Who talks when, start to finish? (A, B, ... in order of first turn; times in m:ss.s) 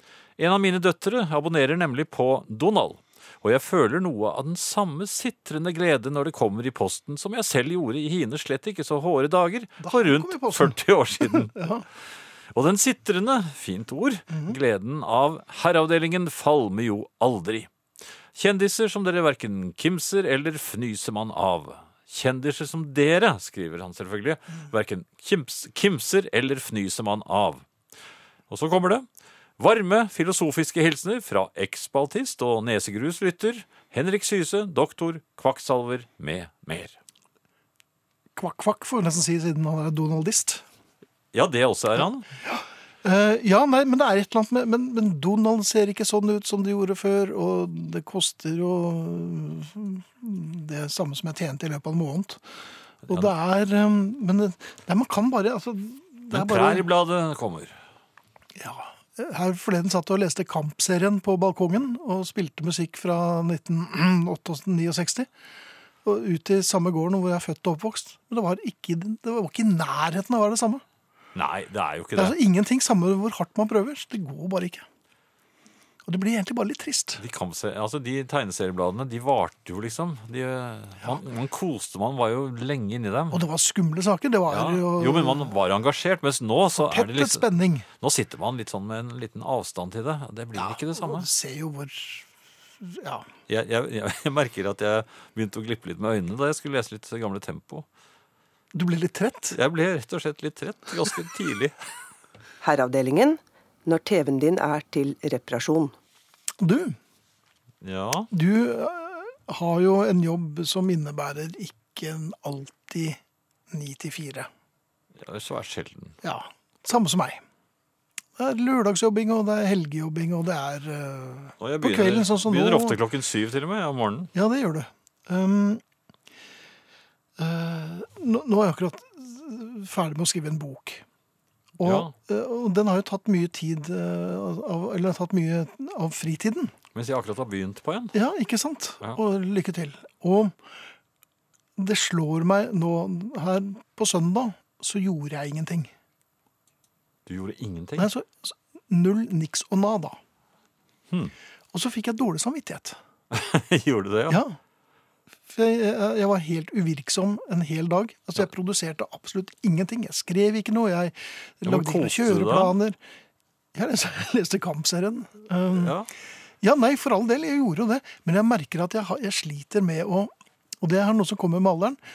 0:00.4-0:11.6 A
0:09.8-0:11.9 B
0:12.5-0:17.7 A
0:18.4-0:27.7 A
0:28.5-0:29.1 A
0:29.6-0:37.0 A
0:38.4-0:40.6 B
0:41.3-0:42.3 A
0:42.4-0:52.4 B
0:53.1-0:56.9 B
0:56.3-0:57.8 A
0:58.6-1:05.3 B
1:06.0-1:10.8 B
1:11.4-1:12.4 A
1:12.2-1:14.8 B
1:16.1-1:17.2 B
1:17.2-1:23.4 A
1:23.3-1:25.5 B
1:24.5-1:31.3 A
1:26.7-1:27.9 B
1:30.6-1:32.3 B
1:32.8-1:33.3 B
1:33.5-1:37.9 A
1:38.7-1:39.6 B
1:39.5-1:41.8 A
1:42.6-1:45.9 C
1:46.6-1:47.0 B
1:47.8-1:48.3 A
1:48.3-1:53.2 B
1:53.7-1:54.5 B
1:55.2-1:56.2 A
1:56.2-1:57.4 B
1:58.4-2:03.0 B
2:01.6-2:04.3 A
2:04.3-2:05.8 B
2:07.4-2:11.0 B
2:11.8-2:16.7 B
2:11.8-2:12.1 A
2:16.9-2:18.2 A
2:18.1-2:20.6 B
2:21.8-2:25.9 B
2:27.3-2:28.1 A
2:28.0-2:30.2 B
2:31.7-2:33.0 B
2:33.3-2:34.4 A
2:34.3-2:34.6 B
2:35.5-2:43.0 B
2:41.6-2:42.8 A
2:43.7-2:46.0 B
2:45.7-2:46.1 A
2:46.6-2:52.0 B